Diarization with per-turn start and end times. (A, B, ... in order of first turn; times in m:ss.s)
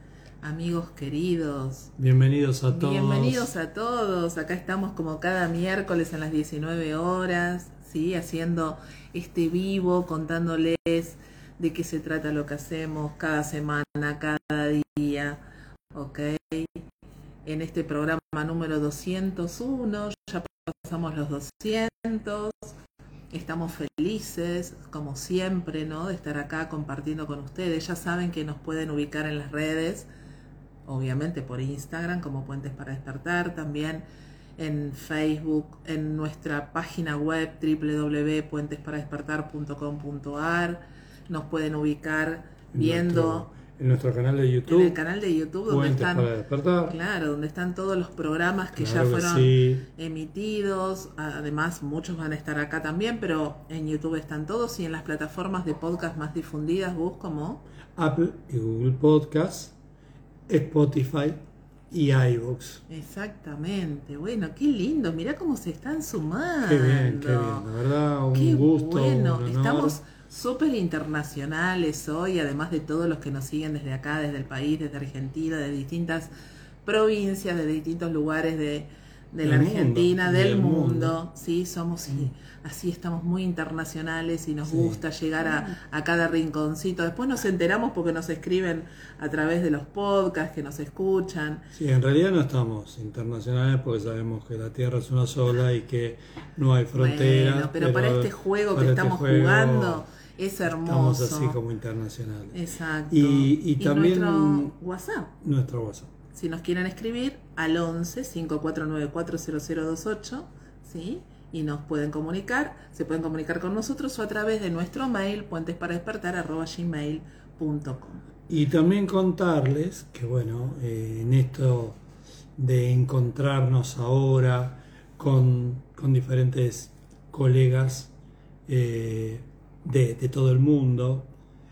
0:00.4-0:01.9 A
0:02.0-0:03.5 B
0:02.7-0:15.4 A
0:15.9-0:16.8 A
0:17.4-0:22.8 A
0:23.3-0:30.1 A
0:30.8-0:34.0 A
0:34.6-0:43.5 A
0:42.7-0:45.0 B
0:44.6-0:46.3 A
0:45.7-0:47.0 B
0:46.9-0:57.7 A
0:48.8-0:49.9 B
0:58.0-0:59.7 B
1:00.5-1:02.8 B
1:02.9-1:07.7 A
1:06.6-1:10.0 B
1:08.3-1:16.3 A
1:16.8-1:31.7 A
1:19.4-1:21.2 B
1:24.6-1:25.0 B
1:31.7-1:40.0 B
1:37.0-1:41.6 A
1:40.6-1:44.8 B
1:42.5-1:45.3 A
1:45.4-1:46.1 B
1:46.3-1:58.2 A
1:58.5-2:02.0 B
2:02.6-2:08.1 B
2:08.7-2:11.3 B